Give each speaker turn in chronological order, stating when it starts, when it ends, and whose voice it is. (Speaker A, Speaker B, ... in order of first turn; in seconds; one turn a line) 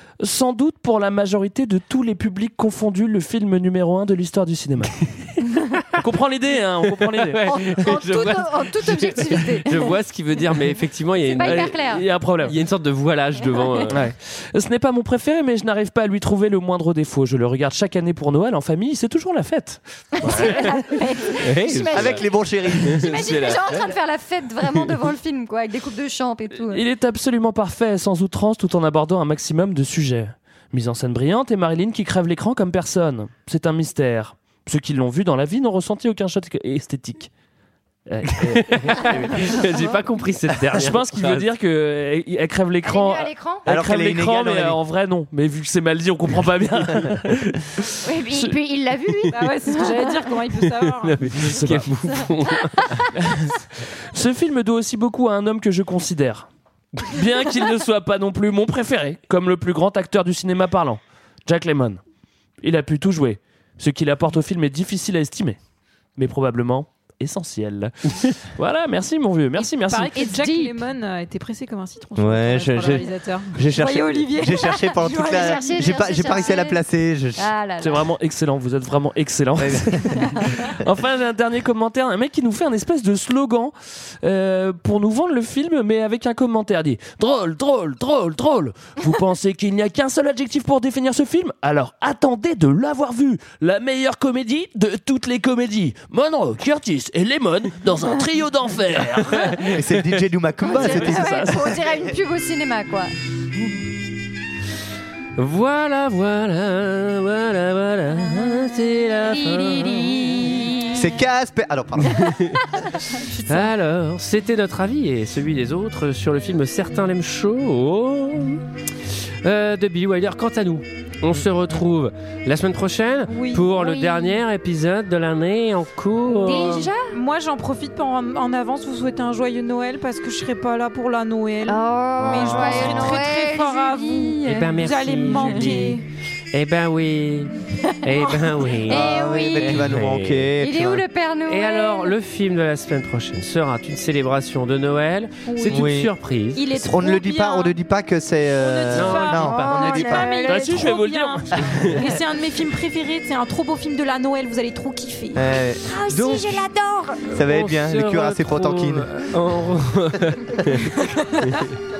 Speaker A: 0.2-5.1
Speaker A: 6.0-7.7
Speaker B: 6.9-11.9
Speaker C: 7.5-9.9
Speaker C: 11.2-12.1
Speaker A: 11.4-12.6
Speaker B: 12.4-14.0
Speaker A: 13.9-20.8
Speaker C: 20.2-22.3
Speaker B: 21.3-24.0
Speaker D: 21.9-23.5
Speaker C: 22.8-26.8
Speaker A: 26.7-37.3
Speaker A: 38.1-39.5
Speaker B: 38.5-41.5
Speaker A: 40.7-48.5
Speaker C: 42.8-43.6
Speaker D: 43.6-44.8
Speaker C: 48.0-50.1
Speaker E: 49.3-51.5
Speaker B: 51.0-53.1
Speaker A: 51.3-51.9
Speaker A: 53.1-56.5
Speaker A: 57.0-62.0
Speaker A: 62.6-65.6
Speaker A: 66.2-70.2
Speaker C: 69.6-70.7
Speaker E: 69.9-76.4
Speaker D: 72.2-77.5
Speaker C: 75.0-76.8
Speaker C: 77.3-78.1
Speaker A: 77.8-99.8
Speaker D: 79.6-80.2
Speaker C: 80.2-80.5
Speaker D: 99.6-102.2
Speaker C: 100.6-103.1
Speaker A: 100.8-101.7
Speaker B: 105.4-110.7
Speaker C: 109.2-111.1
Speaker D: 110.9-112.3
Speaker B: 112.0-112.6
Speaker C: 112.8-113.7
Speaker B: 113.5-118.6
Speaker B: 119.4-126.9
Speaker E: 123.3-124.0
Speaker C: 123.7-124.2
Speaker C: 126.4-127.1
Speaker E: 127.1-136.1
Speaker C: 131.7-134.7
Speaker D: 132.2-133.2
Speaker B: 134.4-136.0
Speaker C: 135.3-135.8
Speaker B: 136.5-137.5
Speaker B: 138.0-140.5
Speaker C: 138.1-139.9
Speaker D: 138.9-141.0
Speaker C: 140.6-142.1
Speaker B: 141.5-146.6
Speaker E: 145.4-146.0
Speaker D: 145.7-146.1
Speaker E: 146.5-147.7
Speaker D: 146.7-149.6
Speaker E: 148.5-155.5
Speaker B: 148.9-150.3
Speaker C: 149.5-150.7
Speaker A: 150.4-152.1
Speaker D: 155.3-155.8
Speaker C: 155.9-157.2
Speaker B: 156.1-156.6
Speaker B: 157.2-161.6
Speaker D: 157.3-159.1